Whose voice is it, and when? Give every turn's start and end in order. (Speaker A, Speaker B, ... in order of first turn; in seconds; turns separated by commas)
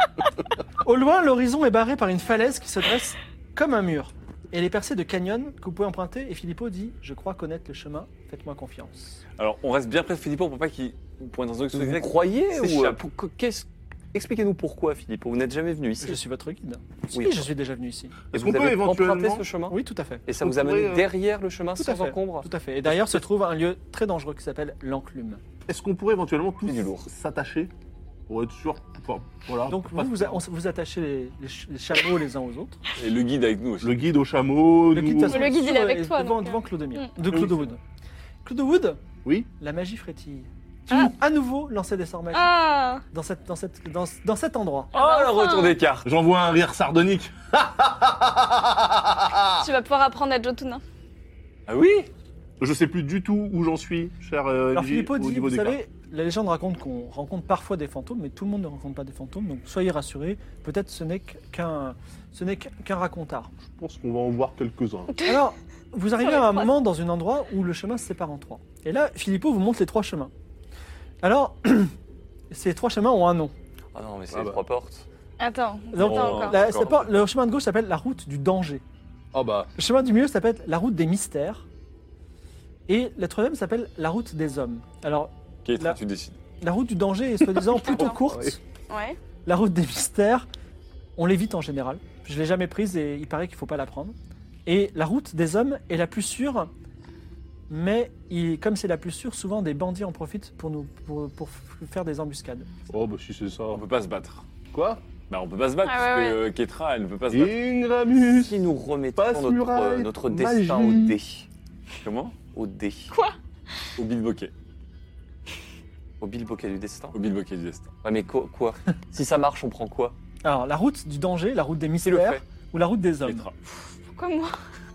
Speaker A: 0.8-9.2, Speaker B: 9.4-13.0, Speaker C: 11.7-16.2, Speaker A: 16.0-18.2, Speaker C: 17.1-17.5, Speaker D: 18.3-19.5, Speaker C: 18.3-22.5, Speaker A: 19.7-20.2, Speaker D: 20.4-21.1, Speaker A: 21.8-25.4, Speaker D: 25.7-27.7, Speaker C: 26.7-27.1, Speaker D: 28.3-30.4, Speaker A: 29.7-32.8, Speaker B: 33.0-34.0, Speaker D: 33.8-35.5, Speaker A: 34.9-37.8, Speaker E: 35.3-37.1, Speaker D: 37.3-37.7, Speaker A: 38.5-39.0, Speaker D: 39.2-39.5, Speaker A: 39.6-44.9, Speaker E: 42.3-43.0, Speaker E: 44.9-45.8, Speaker B: 44.9-46.1, Speaker D: 46.0-49.6, Speaker E: 49.6-50.8, Speaker B: 51.7-52.1, Speaker D: 52.6-55.8, Speaker A: 54.7-63.5, Speaker D: 63.7-65.1, Speaker E: 65.1-65.4, Speaker A: 65.2-70.3, Speaker E: 66.2-66.7, Speaker A: 71.2-71.9, Speaker A: 72.5-73.5, Speaker C: 73.9-75.1, Speaker D: 74.3-74.6, Speaker E: 75.4-76.6, Speaker A: 75.9-78.8, Speaker B: 76.0-77.1, Speaker D: 79.3-79.7, Speaker A: 79.8-81.7, Speaker A: 82.9-86.0, Speaker B: 85.7-86.4, Speaker A: 86.6-88.6, Speaker D: 87.6-88.6, Speaker E: 87.8-88.2, Speaker E: 88.9-89.2, Speaker A: 89.5-90.5, Speaker A: 91.2-94.2, Speaker A: 94.7-96.7, Speaker A: 97.7-102.7, Speaker D: 102.9-103.8, Speaker B: 103.7-104.4, Speaker D: 104.7-105.0, Speaker B: 105.3-107.6, Speaker E: 105.8-106.4, Speaker D: 107.3-108.6, Speaker C: 108.3-111.5, Speaker D: 109.2-111.2, Speaker B: 112.0-112.4, Speaker C: 112.5-113.1, Speaker E: 113.1-113.4, Speaker B: 114.0-114.5, Speaker C: 116.2-117.2, Speaker B: 117.1-117.9, Speaker C: 118.0-120.2, Speaker A: 120.4-123.5, Speaker C: 122.0-122.4, Speaker B: 123.2-123.5, Speaker E: 124.1-124.6